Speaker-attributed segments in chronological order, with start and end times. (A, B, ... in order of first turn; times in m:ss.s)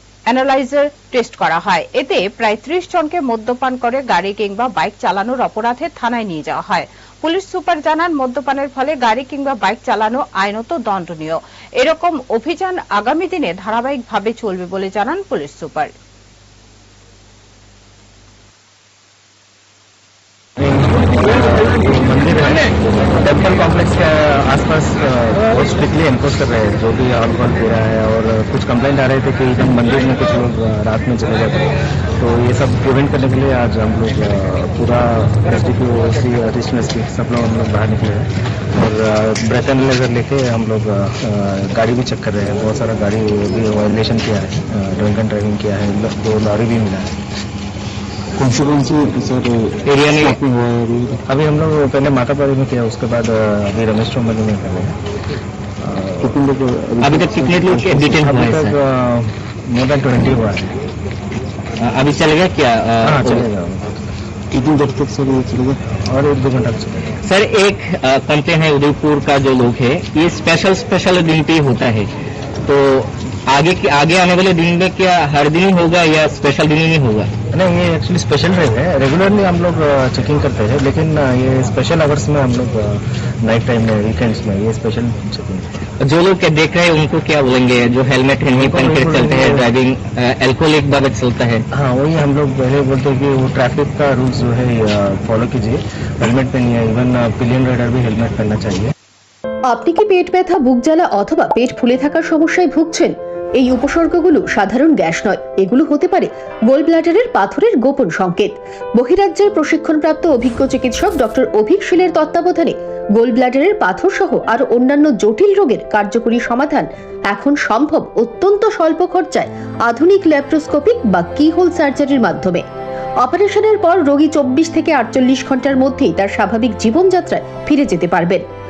0:00.3-0:15.9 A
0:20.6-0:47.2 B
0:48.4-0:51.2 C
0:49.9-0:50.4 D
0:51.3-0:55.0 B
0:55.8-0:56.4 B
0:56.2-0:58.2 C
0:57.0-0:58.8 D
0:58.1-1:00.7 B
1:01.8-1:03.5 D
1:03.0-1:04.1 B
1:04.5-1:05.8 C
1:06.0-1:07.2 B
1:07.2-1:12.1 D
1:12.7-1:17.3 D
1:17.5-1:25.8 B
1:26.0-1:31.6 D
1:28.6-1:29.7 B
1:31.7-1:38.9 B
1:39.7-2:02.6 E
2:03.2-2:08.4 E